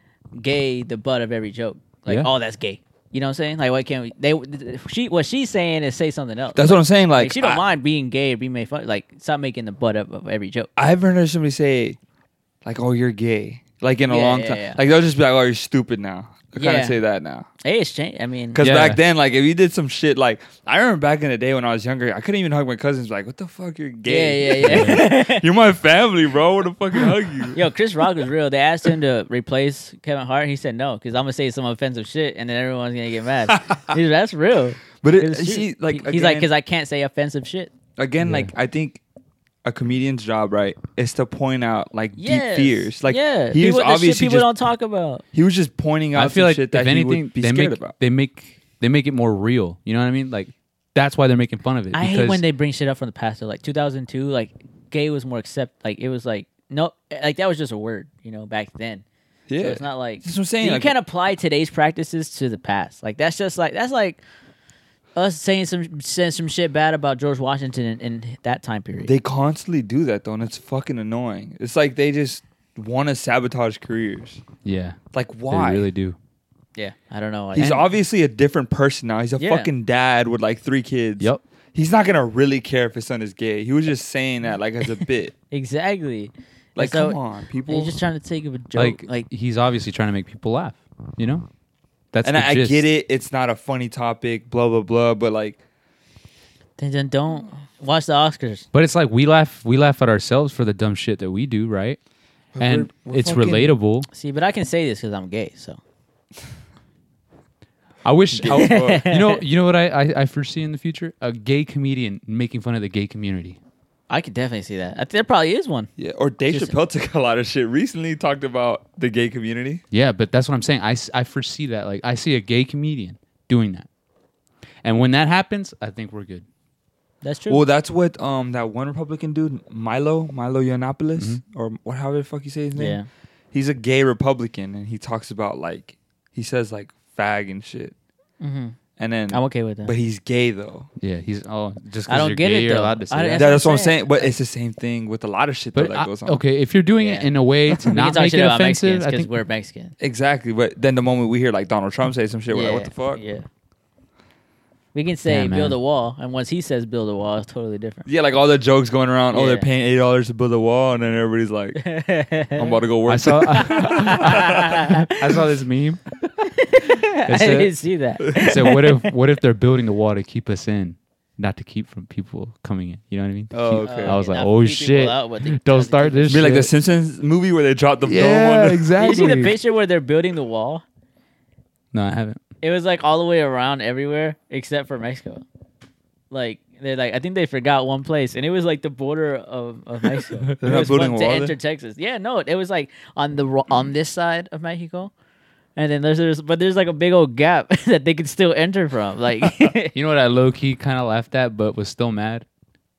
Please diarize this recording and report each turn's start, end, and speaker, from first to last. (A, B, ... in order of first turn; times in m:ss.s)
0:00.4-0:10.7 A
0:06.6-0:07.6 B
0:10.8-0:12.0 B
0:12.6-0:17.5 B
0:14.1-0:14.8 A
0:16.6-0:17.0 A
0:17.6-0:18.6 A
0:18.5-0:27.6 B
0:18.6-0:19.0 C
0:24.1-0:25.4 A
0:24.6-0:25.0 C
0:27.5-0:37.7 A
0:35.0-0:36.5 B
0:38.0-0:39.0 B
0:38.2-0:38.5 C
0:39.6-0:44.5 B
0:42.2-0:45.2 A
0:45.3-0:48.0 B
0:46.2-0:52.4 C
0:51.9-0:59.0 A
0:59.5-1:01.0 B
0:59.6-1:04.2 A
1:05.2-1:09.1 A
1:09.1-1:14.4 B
1:14.6-1:15.0 C
1:15.1-1:15.9 B
1:15.5-1:16.2 C
1:16.8-1:17.8 A
1:17.5-1:25.4 B
1:19.4-1:19.7 A
1:25.5-1:29.3 A
1:26.8-1:28.0 B
1:28.8-1:31.5 C
1:32.1-1:32.8 C
1:32.2-1:35.6 B
1:36.8-1:38.7 A
1:38.7-1:42.0 C
1:42.6-1:43.7 B
1:42.6-1:44.1 C
1:44.1-1:45.8 A
1:48.0-1:53.6 C
1:48.3-1:49.0 B
1:48.5-1:49.4 A
1:54.1-1:55.9 A
1:56.0-1:59.8 B
1:56.5-1:56.7 A
1:59.9-2:03.9 C
2:04.8-2:06.5 C
2:07.2-2:07.6 A
2:07.5-2:13.0 B
2:12.8-2:13.1 A
2:13.5-2:18.0 B
2:18.4-2:18.8 A
2:19.0-2:20.9 B
2:19.3-2:19.9 A
2:21.0-2:23.5 C
2:22.1-2:24.3 A
2:23.4-2:26.4 B
2:25.7-2:29.3 C
2:27.0-2:29.9 A
2:30.0-2:33.2 B
2:32.5-2:33.4 A
2:34.9-2:38.1 A
2:35.3-2:35.8 C
2:38.1-2:41.8 B
2:39.3-2:39.7 A
2:41.8-2:42.8 A
2:42.6-2:44.8 B
2:43.1-2:46.0 C
2:43.5-2:45.1 A
2:46.4-2:49.1 A
2:47.3-2:47.7 C
2:48.3-2:56.7 C
2:53.5-2:54.2 B
2:53.8-2:56.5 A
2:56.3-2:59.3 B
2:58.0-2:59.6 C
2:59.0-3:00.8 A
3:01.9-3:02.4 C
3:02.6-3:05.4 A
3:06.3-3:15.1 A
3:10.6-3:11.6 B
3:15.8-3:19.9 A
3:19.9-3:22.5 C